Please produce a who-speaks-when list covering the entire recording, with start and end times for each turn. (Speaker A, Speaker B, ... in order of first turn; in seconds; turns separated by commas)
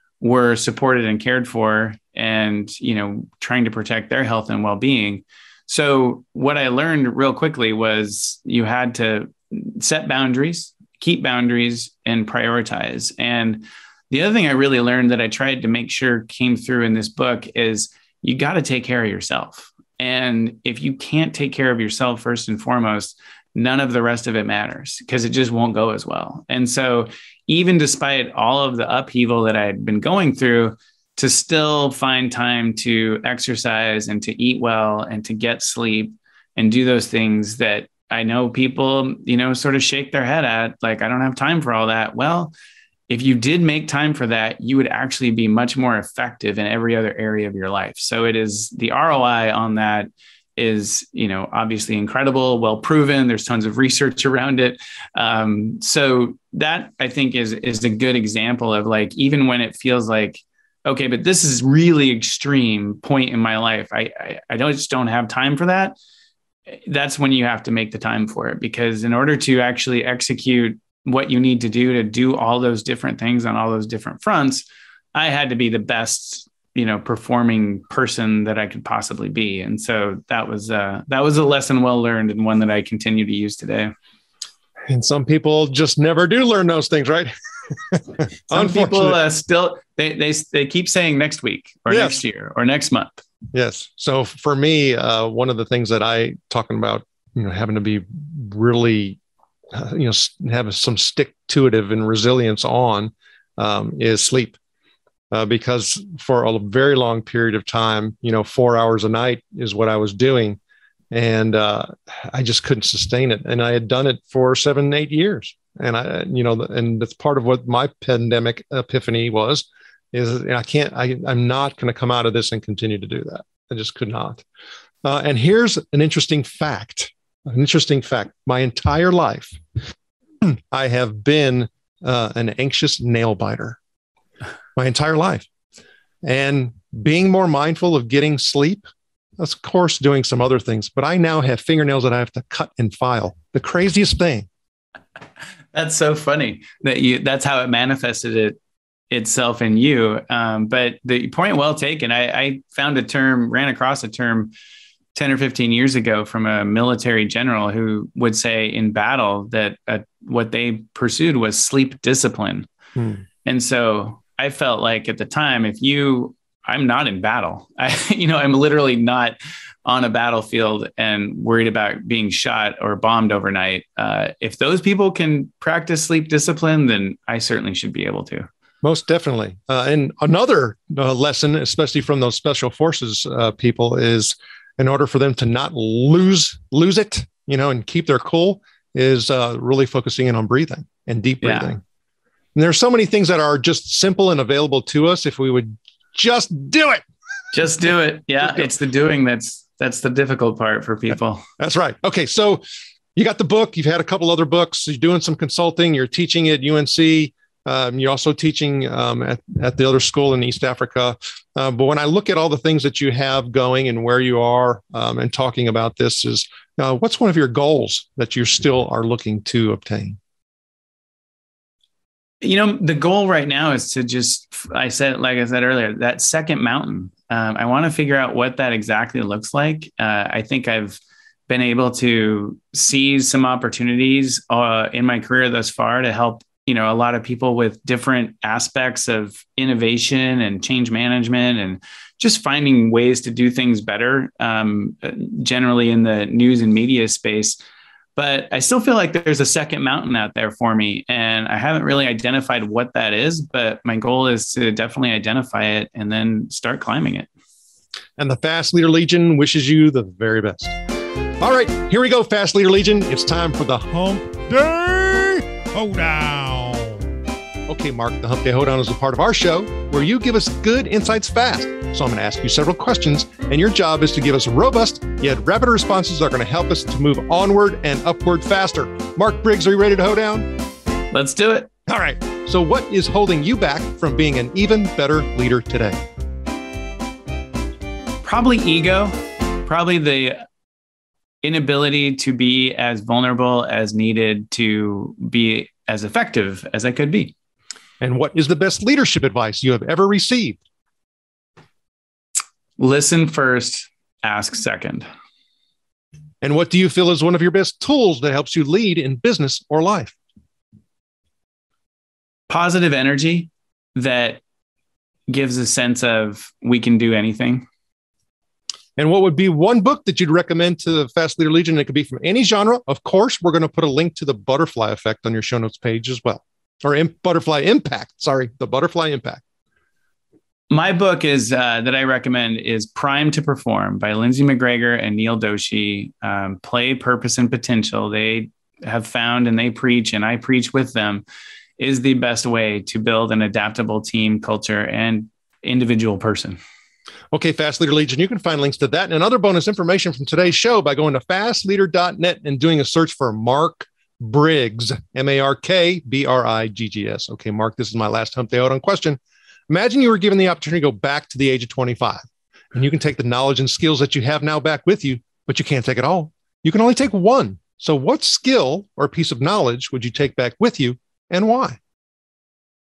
Speaker A: 0.2-42.5, Speaker A: 43.1-66.0, Speaker A: 66.9-83.9, Speaker B: 84.9-89.2, Speaker A: 88.5-93.2, Speaker B: 91.9-92.2, Speaker B: 93.5-99.2, Speaker B: 99.7-104.6, Speaker B: 105.3-110.6, Speaker B: 111.1-124.4, Speaker B: 125.0-129.6, Speaker B: 130.4-133.8, Speaker B: 134.8-135.5, Speaker B: 136.2-138.8, Speaker B: 139.4-144.5, Speaker A: 145.7-148.6, Speaker A: 149.1-154.5, Speaker A: 155.1-162.7, Speaker B: 162.9-163.2, Speaker A: 163.4-178.5, Speaker B: 178.8-191.8, Speaker A: 191.4-191.7, Speaker B: 192.5-197.0, Speaker A: 197.5-201.4, Speaker B: 198.4-198.7, Speaker B: 201.6-202.6, Speaker B: 203.1-220.2, Speaker A: 222.4-247.6, Speaker A: 248.2-257.3, Speaker B: 258.2-260.8, Speaker B: 261.4-267.0, Speaker B: 267.7-280.5, Speaker A: 281.1-281.7, Speaker B: 281.9-286.0, Speaker A: 288.2-289.1, Speaker A: 289.6-290.4, Speaker A: 291.4-297.3, Speaker B: 298.0-300.6, Speaker A: 302.8-305.1, Speaker B: 306.4-310.1, Speaker A: 312.5-314.4, Speaker A: 315.3-317.6, Speaker B: 319.0-329.4, Speaker A: 330.7-341.2, Speaker A: 341.8-346.6, Speaker B: 347.3-362.2, Speaker B: 362.7-371.8